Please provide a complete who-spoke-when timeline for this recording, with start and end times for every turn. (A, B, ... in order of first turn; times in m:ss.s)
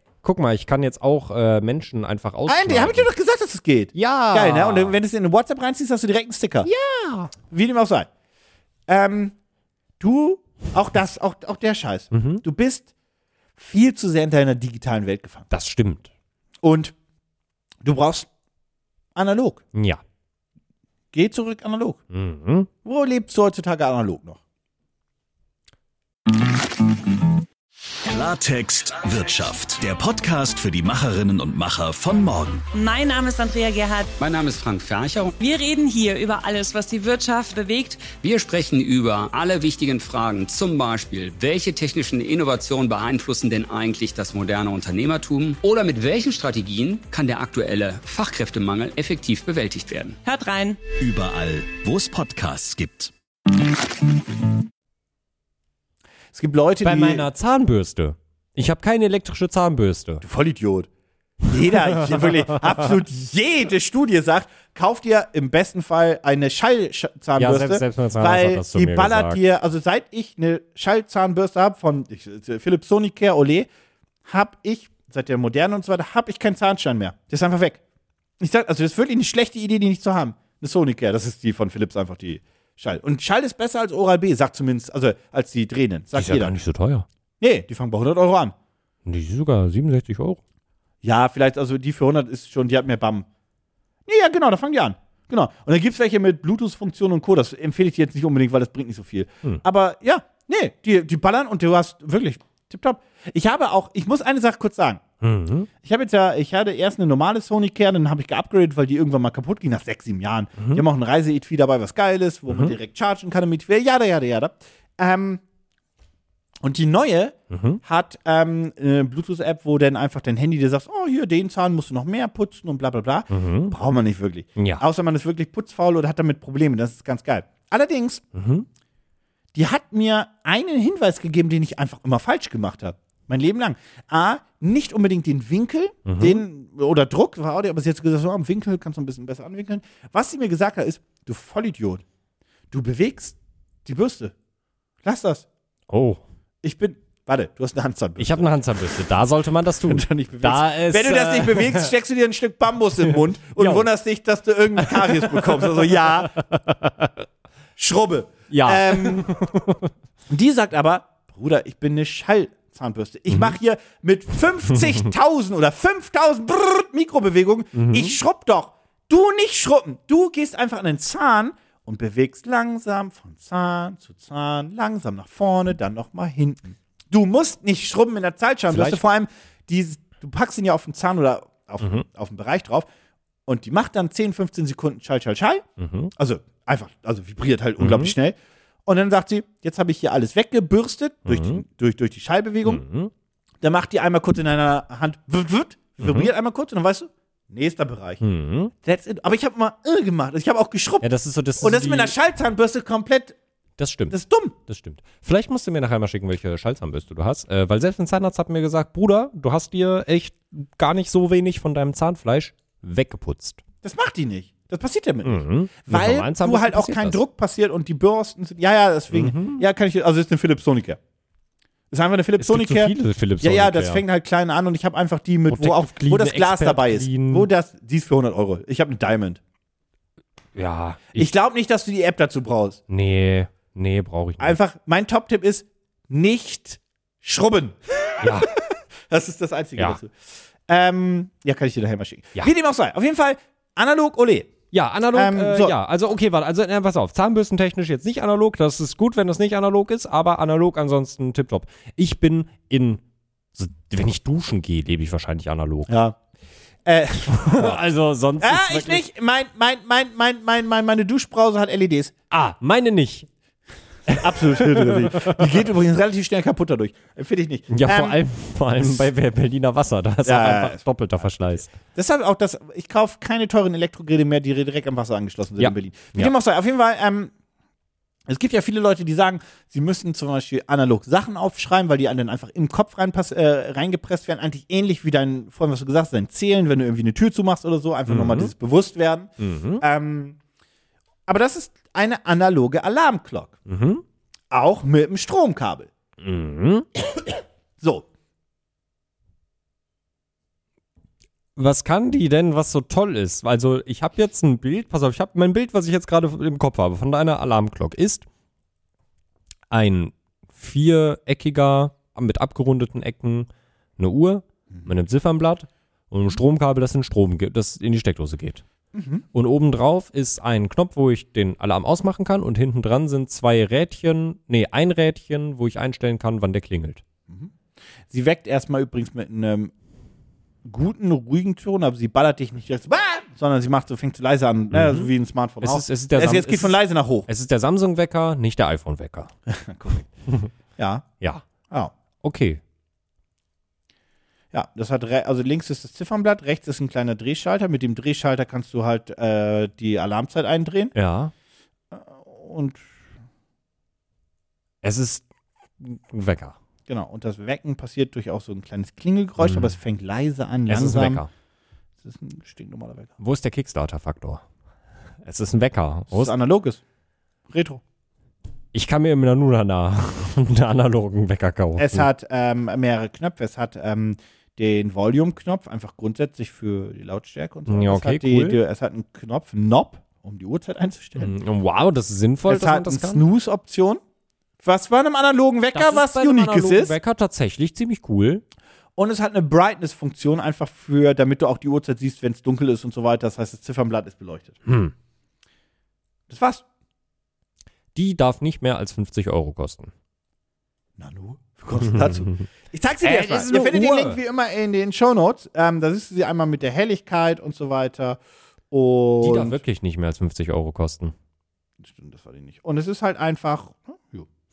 0:00.2-0:03.1 A
0:02.5-0:06.7 B
0:03.9-0:05.0 A
0:06.6-0:07.3 A
0:07.4-0:08.1 B
0:08.9-0:09.3 B
0:10.0-0:12.9 B
0:12.1-0:12.4 A
0:13.6-0:15.5 B
0:15.5-0:16.1 A
0:16.6-0:16.9 B
0:17.8-0:18.3 B
0:19.1-0:19.6 B
0:19.7-0:20.0 A
0:21.1-0:22.0 B
0:22.1-0:22.7 A
0:22.8-0:24.4 B
0:28.0-0:32.6 C
0:32.7-0:34.1 D
0:34.2-0:35.3 E
0:35.4-0:38.1 D
0:38.1-0:50.2 E
0:50.2-0:50.8 D
0:51.0-0:53.1 C
0:56.3-0:57.2 B
0:56.8-1:00.2 A
1:00.2-1:00.9 B
1:01.4-1:13.7 B
1:07.4-1:09.4 A
1:14.2-1:17.8 B
1:18.4-1:26.5 B
1:26.1-1:27.0 A
1:27.4-1:28.5 B
1:29.0-1:30.4 A
1:31.0-1:33.2 B
1:34.0-1:45.0 B
1:45.2-1:45.7 A
1:45.8-1:55.4 B
1:50.6-1:50.8 A
1:52.5-1:52.7 A
1:56.6-2:08.2 B
1:57.5-1:57.8 A
2:03.3-2:03.7 A
2:04.6-2:04.8 A
2:08.3-2:08.6 A
2:09.5-2:22.0 B
2:16.0-2:16.4 A
2:22.7-2:24.3 B
2:25.0-2:25.4 B
2:25.9-2:26.2 A
2:26.6-2:28.4 B
2:28.2-2:31.9 A
2:29.8-2:36.4 B
2:33.6-2:33.9 A
2:34.8-2:37.2 A
2:37.8-2:39.4 B
2:38.5-2:39.9 A
2:40.3-3:02.9 B
2:43.3-2:43.5 A
2:47.7-2:48.2 A
2:58.7-2:59.0 A
3:03.4-3:05.6 B
3:05.8-3:06.1 A
3:06.2-3:12.8 B
3:07.8-3:08.1 A
3:11.3-3:11.6 A
3:12.6-3:13.1 A
3:13.6-3:18.2 B
3:16.0-3:16.3 A
3:18.2-3:18.7 A
3:18.8-3:23.4 B
3:21.0-3:22.1 A
3:23.8-3:33.6 A
3:24.1-3:24.5 B
3:33.8-3:41.0 B
3:35.2-3:37.2 A
3:39.1-3:39.6 A
3:41.9-3:49.4 B
3:42.4-3:44.0 A
3:45.5-3:47.5 A
3:50.5-3:51.3 A
3:51.1-3:52.8 B
3:52.9-3:54.6 A
3:54.4-4:00.1 B
3:58.2-3:58.5 A
4:00.7-4:04.5 B
4:04.7-4:13.0 A
4:05.1-4:05.7 B
4:13.6-4:15.9 A
4:15.9-4:16.2 B
4:16.8-4:17.8 B
4:17.3-4:19.0 A
4:18.4-4:22.1 B
4:22.3-4:23.3 A
4:24.1-4:25.5 A
4:24.1-4:28.2 B
4:27.7-4:31.7 A
4:28.8-4:29.1 B
4:30.2-4:37.3 B
4:35.6-4:36.3 A
4:38.3-4:50.4 B
4:48.1-4:48.5 A
4:49.4-4:49.8 A
4:51.3-4:53.6 B
4:53.7-4:54.0 A
4:54.5-4:55.9 B
4:56.2-4:56.9 A
4:57.8-4:58.1 B
5:01.6-5:08.2 A
5:09.7-5:18.6 A
5:18.9-5:19.2 B
5:19.3-5:27.0 A
5:27.3-5:27.5 B
5:28.1-5:29.7 B
5:30.6-5:37.3 B
5:34.7-5:39.3 A
5:39.5-5:40.0 B
5:40.8-5:41.1 B
5:42.2-5:42.6 A
5:44.5-5:50.9 B
5:50.9-5:51.3 A
5:51.9-5:52.8 B
5:54.8-5:55.2 A
5:55.8-5:56.6 A
5:56.9-6:01.2 B
5:59.4-5:59.7 A
6:00.7-6:01.3 A
6:02.0-6:03.1 B
6:03.2-6:04.4 A
6:05.2-6:06.3 A
6:06.1-6:06.8 B
6:07.5-6:07.8 B
6:08.7-6:12.1 A
6:11.8-6:21.3 B
6:17.7-6:18.6 A
6:21.2-6:23.2 A
6:22.5-6:24.0 B
6:24.6-6:26.9 B
6:25.7-6:28.4 A
6:29.0-6:34.6 B
6:34.6-6:34.9 A
6:36.3-6:36.6 B
6:37.9-6:39.9 A
6:41.0-6:48.2 B
6:41.9-6:42.4 A
6:43.0-6:44.2 A
6:48.7-6:49.6 B
6:49.2-6:51.1 A
6:51.8-6:54.3 B